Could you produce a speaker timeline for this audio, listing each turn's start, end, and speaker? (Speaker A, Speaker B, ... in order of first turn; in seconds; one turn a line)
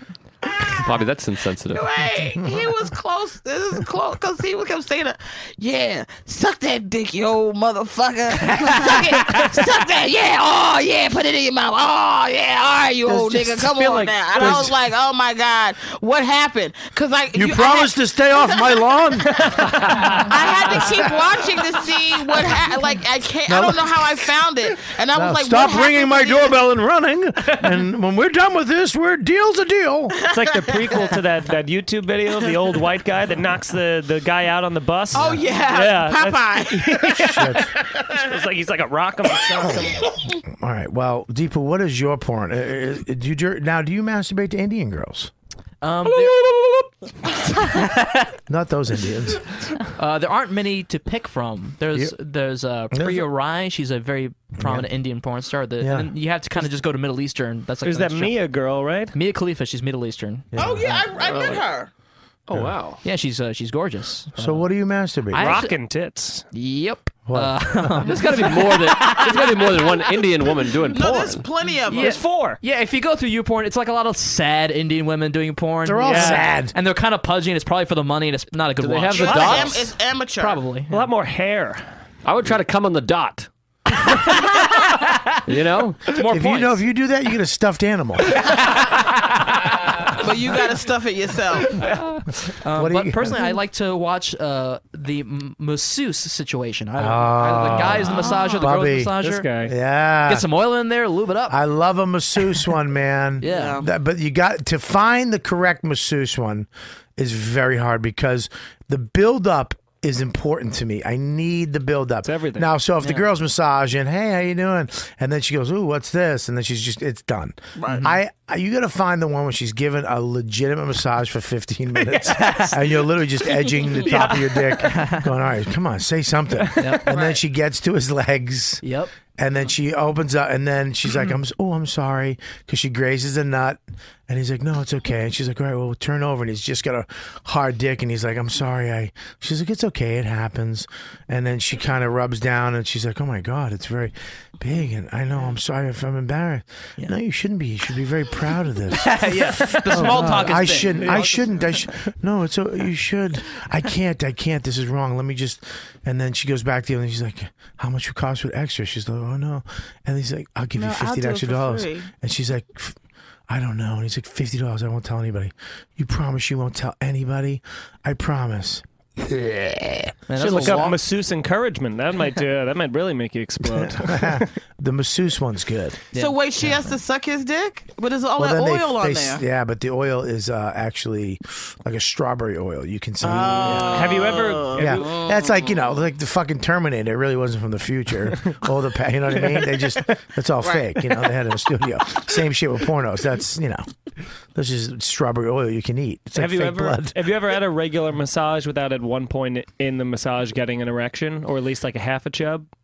Speaker A: 0.7-1.9
Speaker B: 1.7-18.8
Speaker C: 8.6-9.1
Speaker D: 13.1-14.8
Speaker E: 14.4-14.7
Speaker D: 17.3-21.6
Speaker E: 19.3-21.1
Speaker B: 20.3-26.6
Speaker D: 23.5-30.2
Speaker B: 30.1-31.2
Speaker E: 30.2-40.0
Speaker D: 35.1-35.4
Speaker B: 35.1-37.1
Speaker D: 37.1-37.8
Speaker D: 39.6-45.3
Speaker C: 45.8-46.4
Speaker D: 48.5-49.5
Speaker C: 50.0-58.4
Speaker D: 52.9-53.3
Speaker D: 54.6-54.9
Speaker D: 55.8-56.7
Speaker E: 57.8-59.1
Speaker C: 59.1-61.0
Speaker D: 60.5-61.0
Speaker B: 60.6-61.9
Speaker A: 61.2-61.6
Speaker A: 62.5-63.0
Speaker C: 63.0-64.7
Speaker D: 64.4-65.7
Speaker C: 65.3-65.8
Speaker E: 65.4-66.5
Speaker C: 66.5-70.0
Speaker D: 67.3-68.2
Speaker A: 68.0-71.5
Speaker B: 70.9-72.2
Speaker C: 71.9-81.1
Speaker E: 72.0-72.6
Speaker D: 75.8-76.7
Speaker E: 76.0-76.5
Speaker A: 78.8-79.9
Speaker B: 79.1-80.6
Speaker E: 79.3-79.7
Speaker E: 80.9-81.9
Speaker A: 82.2-83.5
Speaker A: 85.5-86.2
Speaker C: 86.1-86.8
Speaker D: 86.3-88.4
Speaker C: 88.4-89.4
Speaker B: 90.2-91.8
Speaker C: 92.6-99.5
Speaker D: 92.7-93.4
Speaker D: 97.0-100.5
Speaker E: 99.2-99.7
Speaker C: 100.3-101.6
Speaker D: 101.5-163.0
Speaker C: 103.4-103.8
Speaker B: 103.5-103.9
Speaker E: 112.2-112.7
Speaker B: 117.8-118.0
Speaker E: 122.0-122.3
Speaker C: 122.3-122.8
Speaker E: 124.0-124.8
Speaker C: 124.8-125.3
Speaker E: 126.6-126.9
Speaker C: 126.8-127.1
Speaker B: 127.1-127.4
Speaker C: 128.8-129.1
Speaker C: 148.9-151.8
Speaker E: 149.9-151.6
Speaker B: 160.8-162.1
Speaker D: 163.5-171.0
Speaker C: 170.3-171.0
Speaker E: 170.4-174.5
Speaker D: 173.6-176.0
Speaker C: 176.1-176.8
Speaker B: 176.2-179.4
Speaker D: 178.4-184.2
Speaker B: 183.2-186.0
Speaker E: 183.7-185.2
Speaker D: 184.7-193.9
Speaker E: 188.3-188.6
Speaker E: 189.3-190.2
Speaker B: 190.6-190.9
Speaker D: 194.6-197.3
Speaker E: 196.3-202.7